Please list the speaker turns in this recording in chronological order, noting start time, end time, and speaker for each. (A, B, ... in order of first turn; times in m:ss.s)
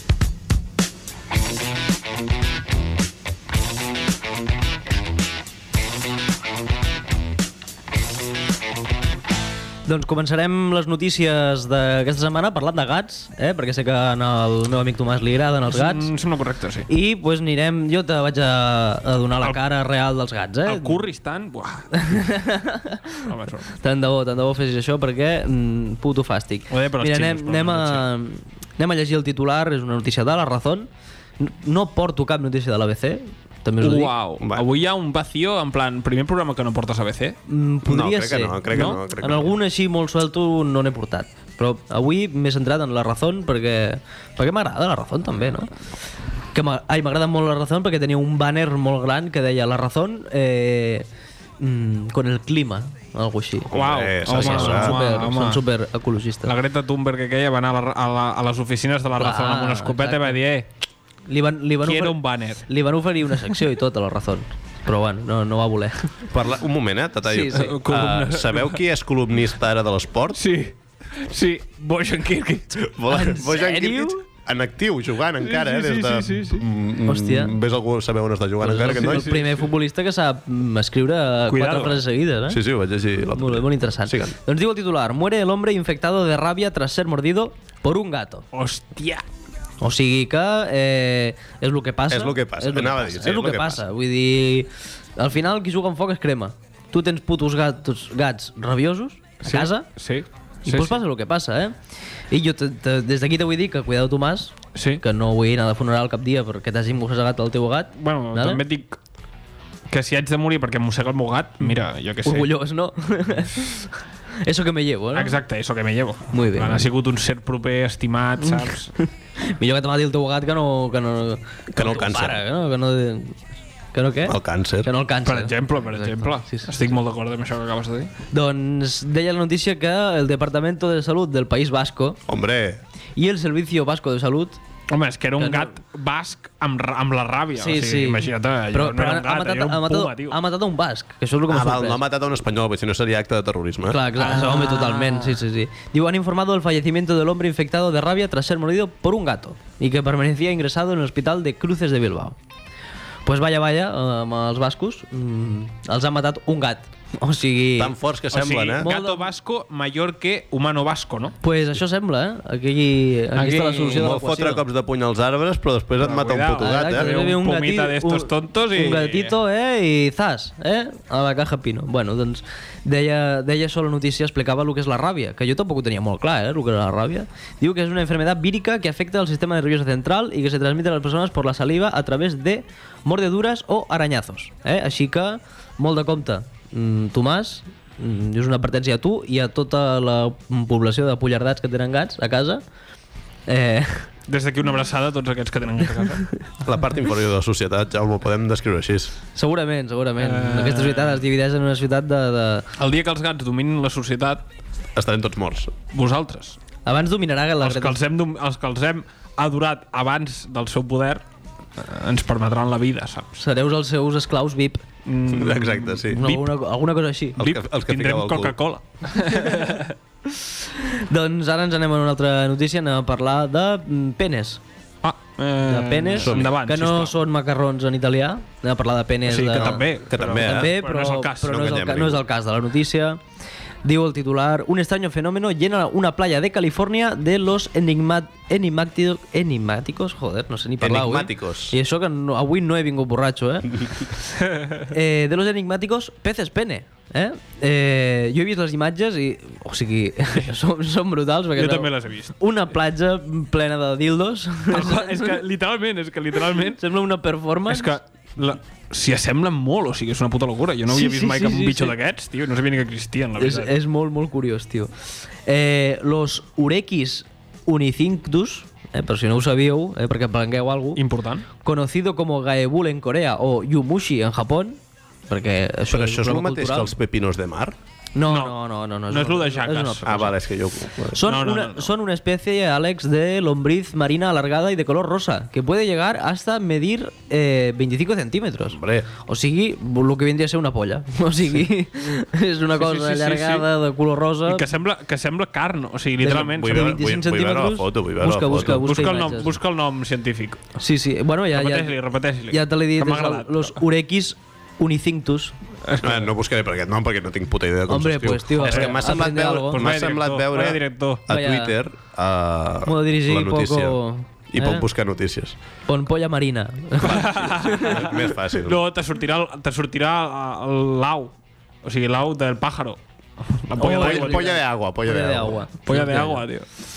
0:09.8-0:16.1 A
0:15.7-0:16.9 B
0:16.9-0:21.0 A
0:20.6-0:22.3 B
0:22.0-0:23.0 A
0:23.2-0:23.7 B
0:23.8-0:30.9 A
0:26.7-0:28.0 B
0:31.4-0:34.1 A
0:33.8-0:37.4 B
0:37.5-0:45.7 A
0:37.8-0:39.5 C
0:46.5-0:51.0 A
0:51.6-0:53.7 A
0:53.7-0:55.6 B
0:53.7-0:55.0 C
0:54.3-0:56.5 A
0:56.4-1:00.7 B
0:59.2-1:00.4 A
1:01.3-1:06.1 A
1:01.8-1:02.6 B
1:06.3-1:10.4 C
1:07.3-1:07.7 A
1:07.5-1:08.8 B
1:10.3-1:12.8 B
1:12.9-1:19.3 C
1:13.1-1:14.2 A
1:15.4-1:16.6 B
1:17.0-1:17.5 A
1:18.6-1:22.6 A
1:18.8-1:19.7 B
1:21.5-1:22.0 B
1:22.5-1:24.3 C
1:23.4-1:28.4 A
1:28.5-1:29.2 B
1:29.8-1:39.9 A
1:32.1-1:33.8 C
1:39.4-1:41.0 B
1:40.6-1:41.8 A
1:42.3-1:48.6 A
1:44.7-1:45.0 B
1:48.0-1:49.0 B
1:49.9-1:52.5 B
1:52.2-1:53.9 A
1:54.4-1:55.4 A
1:55.2-1:58.9 B
1:56.3-1:56.8 A
1:58.4-2:03.4 A
2:01.7-2:02.4 C
2:03.9-2:06.7 A
2:04.3-2:04.9 C
2:05.2-2:08.1 B
2:08.3-2:12.2 A
2:12.3-2:12.8 C
2:13.2-2:14.6 A
2:14.9-2:20.4 B
2:15.4-2:15.7 A
2:17.6-2:22.0 A
2:21.5-2:24.0 C
2:23.9-2:32.4 A
2:24.1-2:25.4 B
2:33.2-2:38.0 A
2:37.8-2:38.8 C
2:38.3-2:41.4 B
2:38.8-2:39.2 A
2:41.4-2:44.6 A
2:43.4-2:44.1 B
2:43.9-2:47.1 C
2:46.0-2:49.3 B
2:46.6-3:12.6 A
3:13.5-3:14.1 A
3:14.3-3:16.3 B
3:16.6-3:19.1 C
3:19.3-3:22.7 A
3:20.2-3:21.2 B
3:22.8-3:24.4 B
3:25.0-3:25.7 C
3:25.9-3:26.6 B
3:26.8-3:28.0 A
3:27.6-3:31.2 B
3:31.8-3:33.3 B
3:33.4-3:34.8 A
3:35.0-3:36.4 B
3:35.3-3:36.4 C
3:36.1-3:37.4 A
3:37.4-3:38.5 C
3:37.4-3:39.9 B
3:40.8-3:44.6 A
3:45.0-3:47.1 B
3:45.7-3:53.2 A
3:46.2-3:46.5 C
3:49.3-3:51.6 B
3:50.1-3:50.8 C
3:51.4-3:52.2 C
3:53.8-4:03.7 A
4:00.8-4:01.7 C
4:04.9-4:15.4 A
4:11.5-4:12.4 B
4:14.7-4:16.8 B
4:16.8-4:17.9 A
4:17.7-4:23.7 B
4:20.9-4:21.9 A
4:23.4-4:24.9 A
4:25.4-4:31.0 A
4:30.9-4:31.4 B
4:31.6-4:34.8 A
4:35.3-4:36.9 A
4:35.9-4:37.8 C
4:38.1-4:40.3 A
4:38.3-4:40.0 B
4:40.0-4:41.2 C
4:41.1-4:54.6 A
4:41.2-4:41.9 B
4:48.7-4:49.1 C
4:52.7-4:53.7 B
4:54.4-4:56.9 B
4:56.2-4:59.5 A
4:56.2-4:58.8 C
4:58.6-5:00.6 B
5:00.8-5:01.9 A
5:01.5-5:03.8 B
5:02.5-5:05.5 A
5:05.8-5:06.3 B
5:06.0-5:14.0 C
5:07.9-5:09.8 A
5:08.6-5:11.2 B
5:11.3-5:11.7 A
5:12.8-5:14.8 A
5:14.5-5:15.5 C
5:15.9-5:18.0 A
5:17.0-5:21.3 B
5:17.6-5:18.8 C
5:21.8-5:23.0 B
5:23.5-5:24.5 B
5:23.8-5:26.4 A
5:23.8-5:25.6 C
5:25.8-5:26.6 B